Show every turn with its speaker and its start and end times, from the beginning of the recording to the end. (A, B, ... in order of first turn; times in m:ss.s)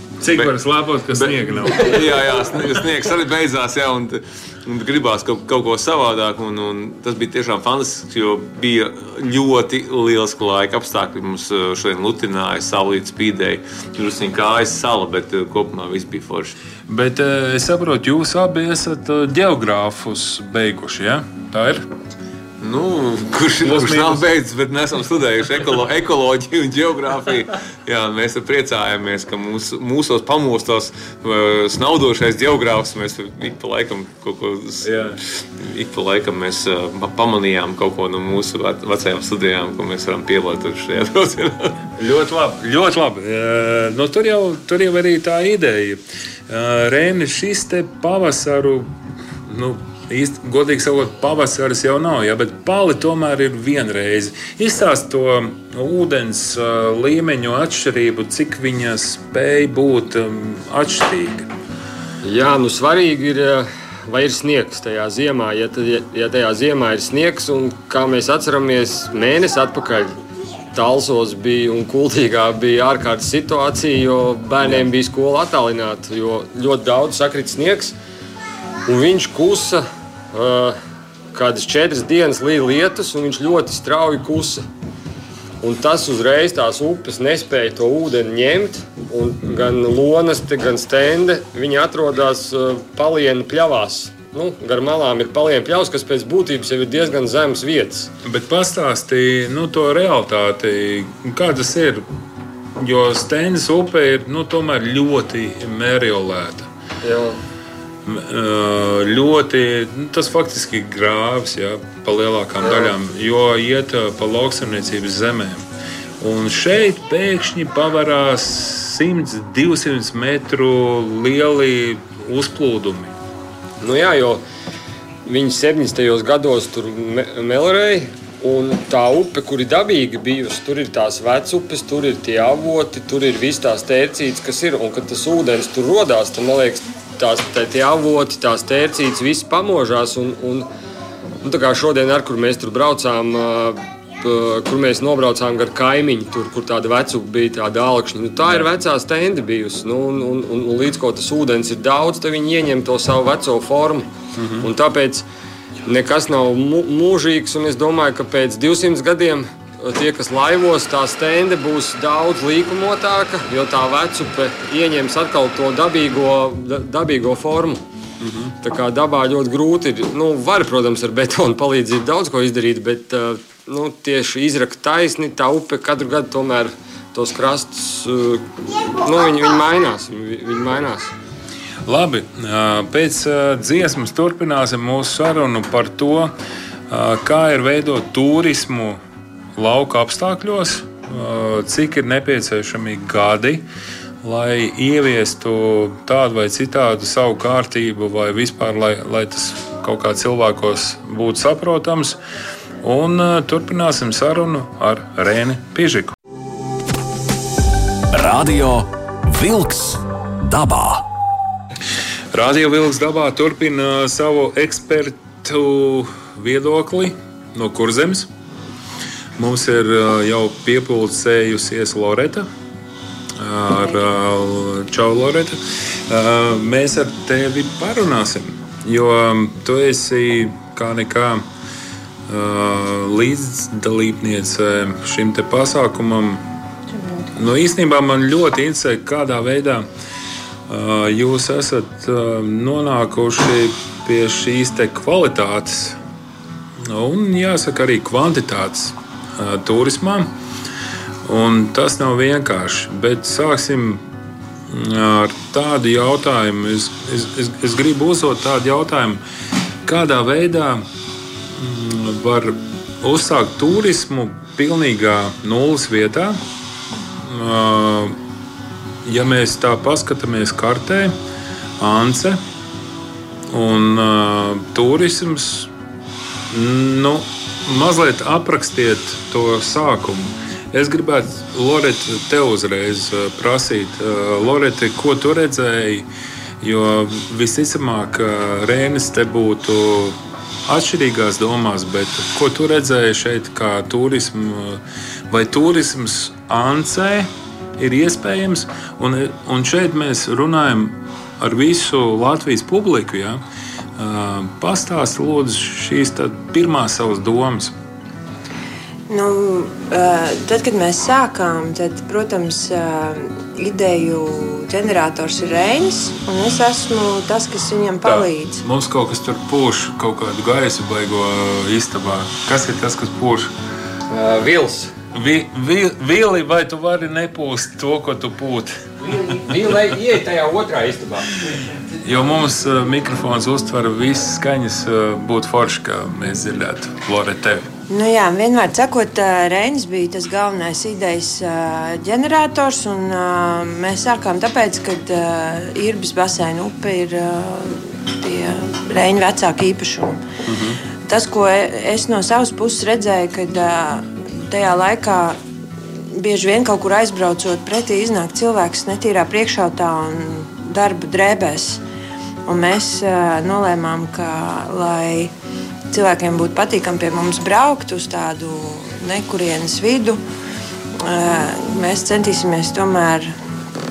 0:00.2-0:02.2 A
0:00.3-0:00.5 B
0:01.1-0:16.5 B
0:16.9-0:21.8 A
0:22.6-0:35.0 B
0:23.6-0:24.2 A
0:34.8-0:35.2 A
0:35.6-0:41.8 B
0:42.0-0:48.9 A
0:49.5-1:01.5 A
1:02.2-1:10.1 C
1:10.7-1:18.0 C
1:18.8-1:20.8 C
1:21.3-1:24.6 C
1:25.6-1:38.1 C
1:38.2-1:42.0 A
1:42.8-1:46.7 A
1:47.0-1:47.4 C
1:48.0-1:55.6 A
1:52.6-1:52.9 C
1:56.2-2:03.1 A
2:03.8-2:04.4 C
2:05.3-2:20.7 C
2:21.4-2:34.1 C
2:34.4-2:34.7 A
2:34.6-2:35.2 C
2:35.8-2:47.8 C
2:48.2-2:48.5 A
2:48.6-3:01.1 C
3:01.9-3:06.3 A
3:06.9-3:09.0 A
3:09.6-3:13.6 A
3:14.2-3:22.2 A
3:22.8-3:26.1 A
3:28.1-3:31.1 D
3:32.3-3:38.3 A
3:39.4-3:42.5 A
3:43.4-3:51.4 A
3:52.3-3:56.4 A
3:57.3-3:59.9 A
4:00.7-4:06.0 A
4:06.8-4:10.3 A
4:11.2-4:14.0 A
4:14.7-4:19.2 A
4:19.8-4:20.8 A
4:21.5-4:26.4 A
4:27.2-4:28.2 A
4:29.0-4:31.1 A
4:31.8-4:32.4 A
4:33.5-4:35.7 A
4:36.5-4:46.1 A
4:46.6-4:50.2 A
4:50.7-5:03.4 A
5:04.0-5:07.7 A
5:09.1-5:18.6 E
5:18.0-5:23.5 A
5:24.1-5:24.9 C
5:25.1-5:28.8 A
5:29.0-5:31.4 C
5:32.0-5:37.7 A
5:37.9-5:50.2 E
5:50.5-5:50.8 A
5:51.1-5:55.4 E
5:56.1-6:01.8 E
6:02.5-6:05.3 E
6:05.9-6:10.2 E
6:11.0-6:13.3 E